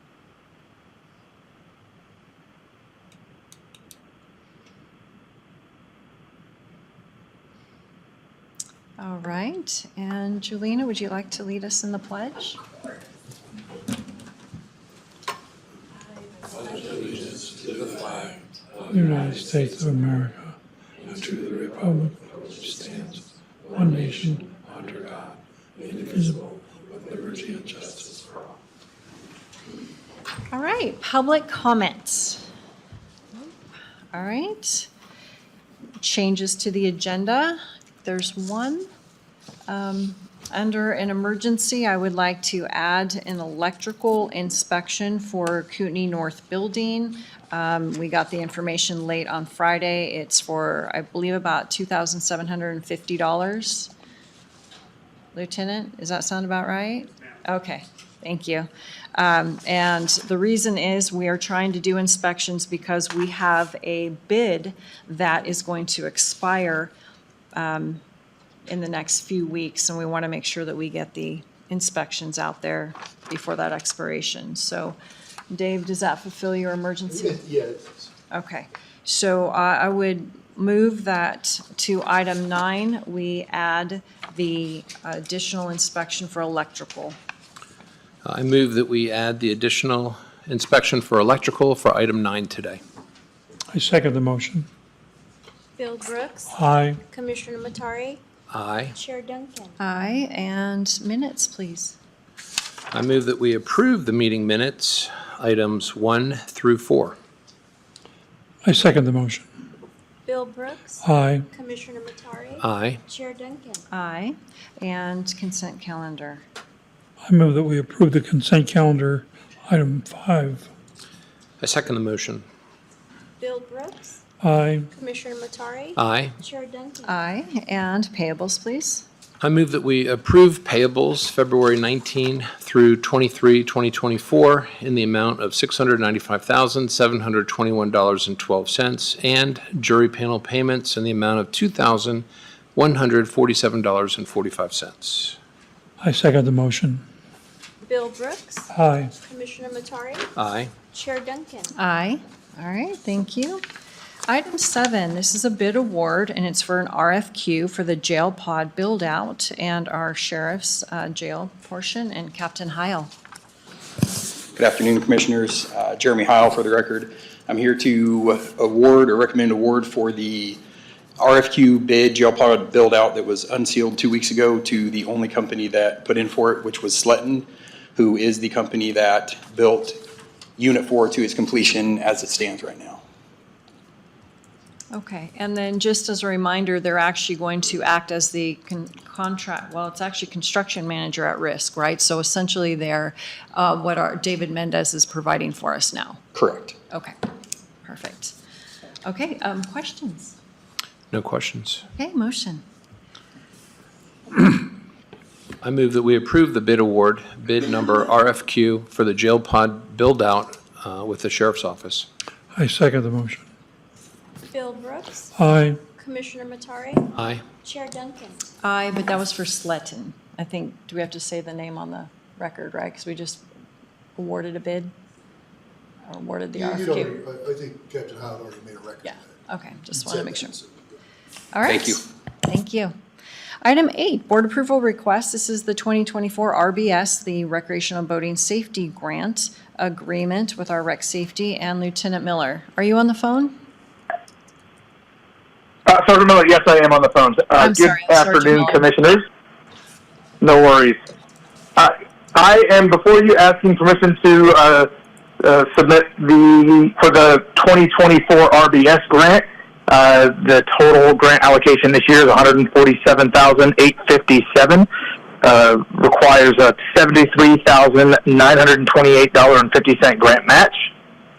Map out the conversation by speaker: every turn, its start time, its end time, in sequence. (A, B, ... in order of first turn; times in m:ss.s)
0:09.0-0:12.6 A
0:17.0-0:25.2 B
0:25.8-0:28.1 B
0:30.5-0:32.4 A
0:34.1-0:34.9 A
0:36.0-0:38.9 A
0:39.7-0:53.9 A
0:55.3-1:06.9 A
1:07.6-1:08.0 A
1:08.7-1:15.0 A
1:15.5-1:17.4 A
1:17.1-1:18.0 C
1:18.3-1:27.2 A
1:28.2-1:32.8 D
1:33.7-1:34.7 B
1:35.8-1:36.6 E
1:36.5-1:37.0 B
1:37.1-1:38.2 E
1:38.5-1:39.0 D
1:39.0-1:39.8 E
1:39.8-1:42.0 A
1:42.9-1:47.2 D
1:48.6-1:49.5 B
1:50.3-1:53.8 E
1:51.0-1:51.5 B
1:52.6-1:53.0 D
1:53.9-1:56.4 A
1:57.3-2:00.7 B
2:01.6-2:02.4 D
2:03.4-2:04.2 E
2:04.4-2:04.9 B
2:04.9-2:07.2 E
2:06.0-2:06.3 D
2:07.1-2:09.0 A
2:09.4-2:25.4 D
2:26.0-2:27.0 B
2:27.8-2:28.7 E
2:28.7-2:29.1 B
2:29.2-2:30.3 E
2:30.4-2:30.7 D
2:30.9-2:31.7 E
2:31.8-2:33.6 A
2:34.3-2:43.1 A
2:44.6-2:50.5 F
2:51.2-2:57.4 F
2:58.0-2:59.9 F
3:00.6-3:02.8 F
3:04.9-3:16.2 A
3:16.4-3:16.8 F
3:16.9-3:17.2 A
3:17.8-3:18.4 A
3:19.0-3:20.4 A
3:21.1-3:21.8 D
3:21.9-3:22.6 A
3:25.6-3:32.1 D
3:32.5-3:33.5 B
3:34.5-3:35.3 E
3:35.4-3:35.8 B
3:36.0-3:37.1 E
3:37.2-3:37.5 D
3:37.6-3:38.4 E
3:38.6-3:43.4 A
3:44.2-3:44.9 A
3:46.1-3:47.2 A
3:46.5-3:49.4 C
3:49.0-3:50.6 A
3:50.0-3:50.8 C
3:51.5-3:52.9 A
3:51.7-3:52.0 F
3:53.6-4:03.6 A
4:05.9-4:09.2 G
4:07.6-4:08.9 A
4:10.4-4:11.0 G
4:11.8-4:14.9 G
4:15.4-4:24.9 G
4:25.4-4:30.9 G